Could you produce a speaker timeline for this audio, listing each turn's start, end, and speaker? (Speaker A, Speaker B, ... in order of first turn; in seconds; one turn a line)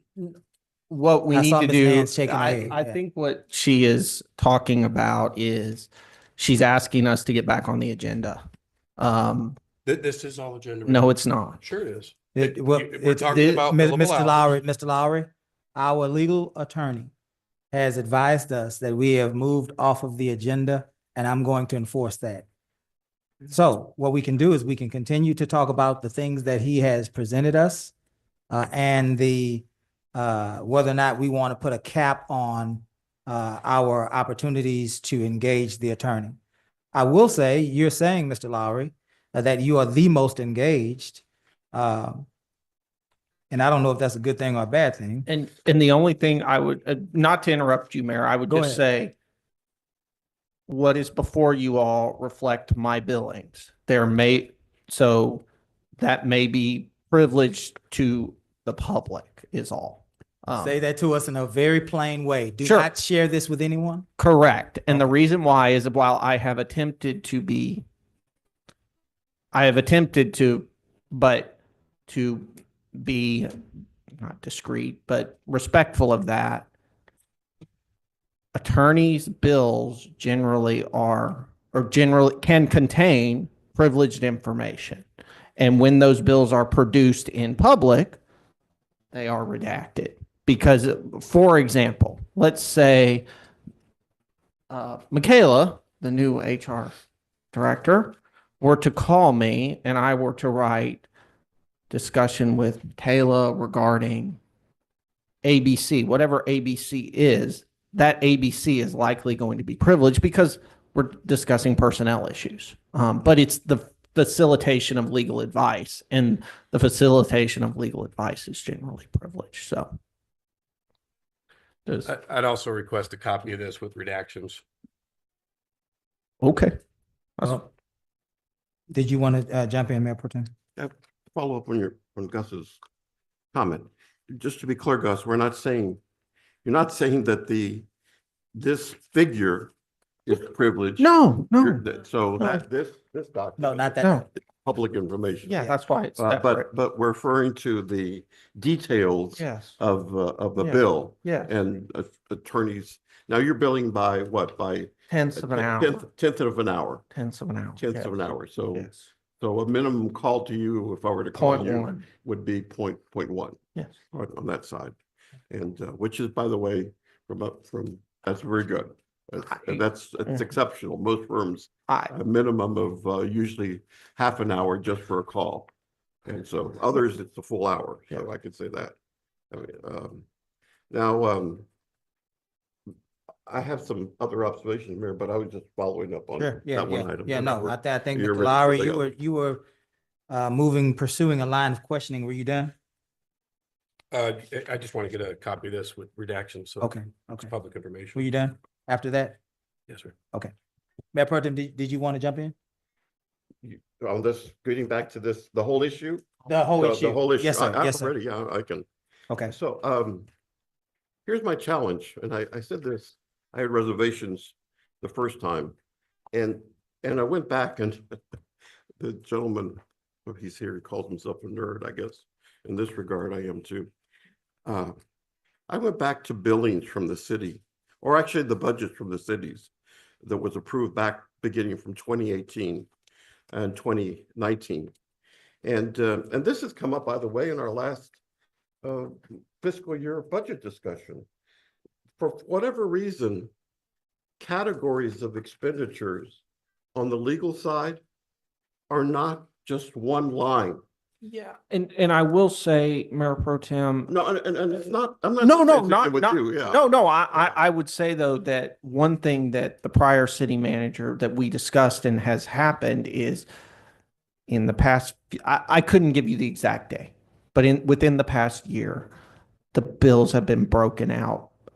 Speaker A: 0.9-8.4
Speaker B: 1.3-3.0
Speaker A: 9.0-9.6
Speaker C: 9.8-14.6
Speaker A: 10.8-11.6
Speaker B: 12.3-17.1
Speaker B: 17.7-22.4
Speaker B: 23.5-27.9
Speaker B: 28.5-36.4
Speaker B: 36.9-42.3
Speaker B: 43.5-45.3
Speaker A: 45.2-49.1
Speaker B: 48.5-48.8
Speaker A: 50.7-55.4
Speaker A: 56.0-60.8
Speaker B: 60.6-64.1
Speaker A: 62.6-62.9
Speaker A: 64.2-67.8
Speaker A: 69.5-73.6
Speaker A: 74.2-76.7
Speaker A: 78.5-85.0
Speaker A: 85.6-88.2
Speaker A: 89.1-93.2
Speaker A: 94.7-96.9
Speaker A: 97.5-101.1
Speaker A: 101.9-104.4
Speaker A: 105.4-119.9
Speaker A: 121.8-122.1
Speaker C: 122.0-124.6
Speaker A: 126.4-126.8
Speaker A: 127.4-127.6
Speaker B: 128.9-130.5
Speaker D: 130.8-132.8
Speaker D: 133.5-136.0
Speaker D: 136.6-137.8
Speaker D: 138.5-139.7
Speaker D: 140.2-145.6
Speaker A: 141.0-141.8
Speaker A: 142.4-142.6
Speaker B: 143.6-144.2
Speaker A: 144.0-144.2
Speaker A: 145.4-146.6
Speaker D: 146.2-157.0
Speaker A: 149.4-149.7
Speaker A: 150.6-151.5
Speaker A: 155.1-156.0
Speaker A: 157.1-158.1
Speaker D: 157.8-163.6
Speaker A: 158.7-159.1
Speaker A: 161.3-162.0
Speaker D: 164.1-164.9
Speaker D: 165.5-175.7
Speaker D: 176.2-178.9
Speaker D: 179.5-180.2
Speaker D: 180.9-181.7
Speaker D: 183.4-189.1
Speaker B: 186.4-189.6
Speaker B: 190.3-192.7
Speaker C: 194.1-196.9
Speaker B: 196.8-197.5
Speaker C: 197.4-198.3
Speaker B: 198.2-199.4
Speaker C: 199.9-200.1
Speaker B: 201.1-202.5
Speaker D: 203.6-208.8
Speaker B: 206.5-208.1
Speaker D: 209.5-210.3
Speaker D: 211.2-215.7
Speaker D: 216.3-218.2
Speaker D: 219.0-223.9
Speaker D: 224.6-225.0
Speaker D: 225.7-229.7
Speaker D: 230.2-232.9
Speaker D: 233.5-234.9
Speaker D: 235.6-238.2
Speaker D: 238.8-241.2
Speaker D: 242.2-243.5
Speaker D: 244.4-246.4
Speaker D: 246.9-248.0
Speaker D: 248.9-250.8
Speaker A: 251.2-254.1
Speaker D: 254.1-256.8
Speaker A: 255.4-263.5
Speaker A: 264.5-269.1
Speaker A: 269.7-271.5